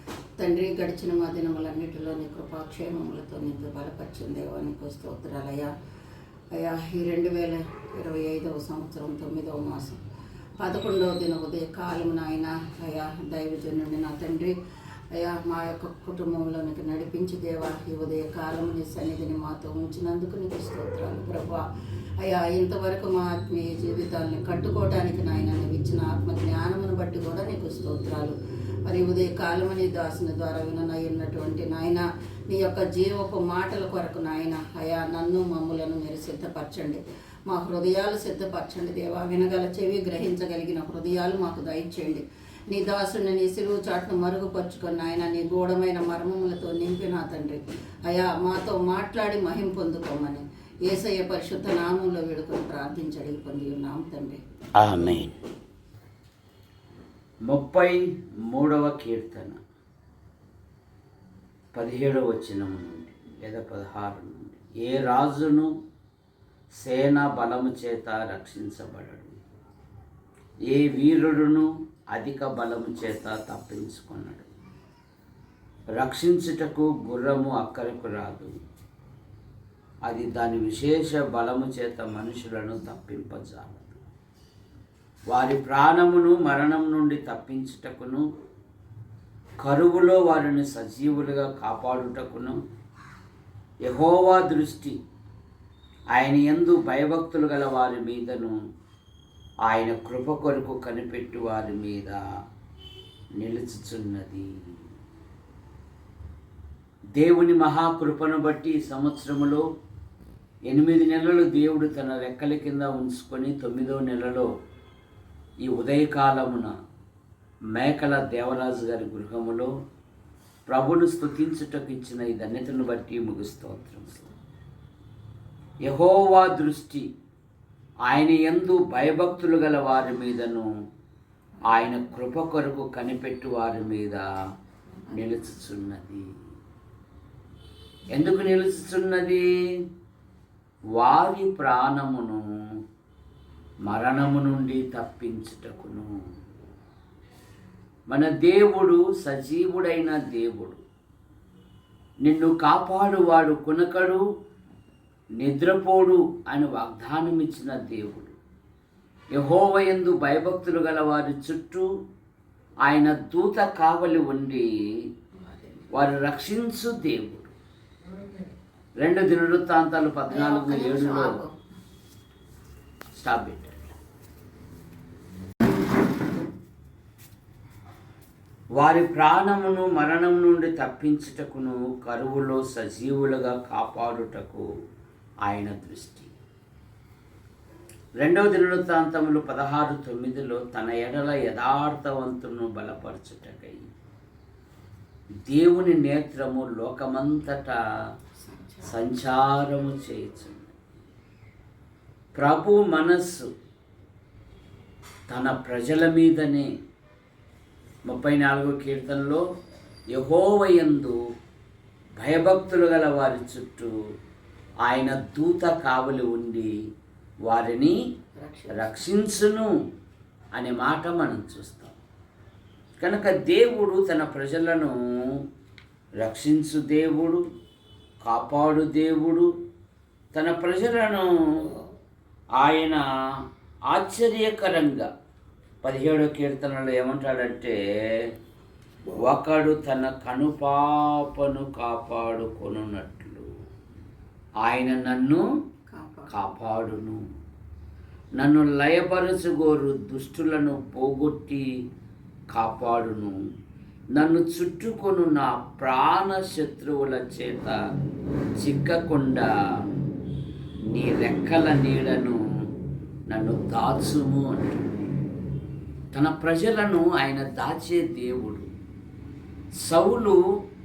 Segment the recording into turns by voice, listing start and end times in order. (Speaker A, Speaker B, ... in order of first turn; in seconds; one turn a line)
Speaker A: 0.4-5.7
Speaker A: 6.5-10.0
Speaker A: 10.6-14.5
Speaker A: 15.1-21.6
Speaker A: 22.2-28.3
Speaker A: 28.9-54.4
Speaker B: 54.8-55.3
Speaker B: 57.5-59.6
Speaker B: 61.7-65.7
Speaker B: 66.8-69.4
Speaker B: 70.7-74.5
Speaker B: 76.0-78.5
Speaker B: 80.0-84.0
Speaker B: 85.3-88.2
Speaker B: 89.6-92.6
Speaker B: 93.8-95.0
Speaker B: 96.1-98.5
Speaker B: 99.7-102.2
Speaker B: 103.4-104.8
Speaker B: 107.2-109.6
Speaker B: 110.7-114.5
Speaker B: 115.6-116.7
Speaker B: 117.7-119.7
Speaker B: 120.7-124.3
Speaker B: 125.8-127.1
Speaker B: 128.1-130.7
Speaker B: 131.7-134.2
Speaker B: 135.1-136.2
Speaker B: 138.1-139.5
Speaker B: 141.0-142.4
Speaker B: 143.8-146.1
Speaker B: 148.1-150.8
Speaker B: 152.2-154.2
Speaker B: 155.4-158.3
Speaker B: 159.3-161.9
Speaker B: 162.8-164.7
Speaker A: 165.5-165.9
Speaker B: 165.9-167.5
Speaker B: 169.0-171.4
Speaker A: 170.3-171.5
Speaker B: 173.2-173.9
Speaker B: 178.8-184.6
Speaker B: 185.4-186.3
Speaker B: 188.2-193.9
Speaker B: 195.5-197.8
Speaker A: 198.4-198.9
Speaker B: 198.8-200.7
Speaker B: 202.3-203.5
Speaker B: 205.3-206.7
Speaker B: 208.1-209.4
Speaker B: 210.1-211.2
Speaker B: 212.2-213.9
Speaker B: 214.8-216.7
Speaker B: 217.4-218.0
Speaker A: 218.4-219.0
Speaker B: 218.7-219.7
Speaker B: 220.6-221.9
Speaker B: 223.0-225.4
Speaker B: 226.2-227.4
Speaker B: 228.2-229.5
Speaker B: 230.3-231.7
Speaker B: 232.6-233.0
Speaker B: 233.9-235.1
Speaker B: 235.8-238.3
Speaker B: 239.1-243.5
Speaker B: 244.6-245.4
Speaker A: 245.9-246.3
Speaker B: 246.3-247.2
Speaker B: 248.4-251.6
Speaker B: 252.5-253.3
Speaker B: 254.1-257.8
Speaker B: 258.6-259.4
Speaker B: 260.9-262.4
Speaker B: 263.3-264.8
Speaker B: 266.1-268.7
Speaker B: 269.9-270.4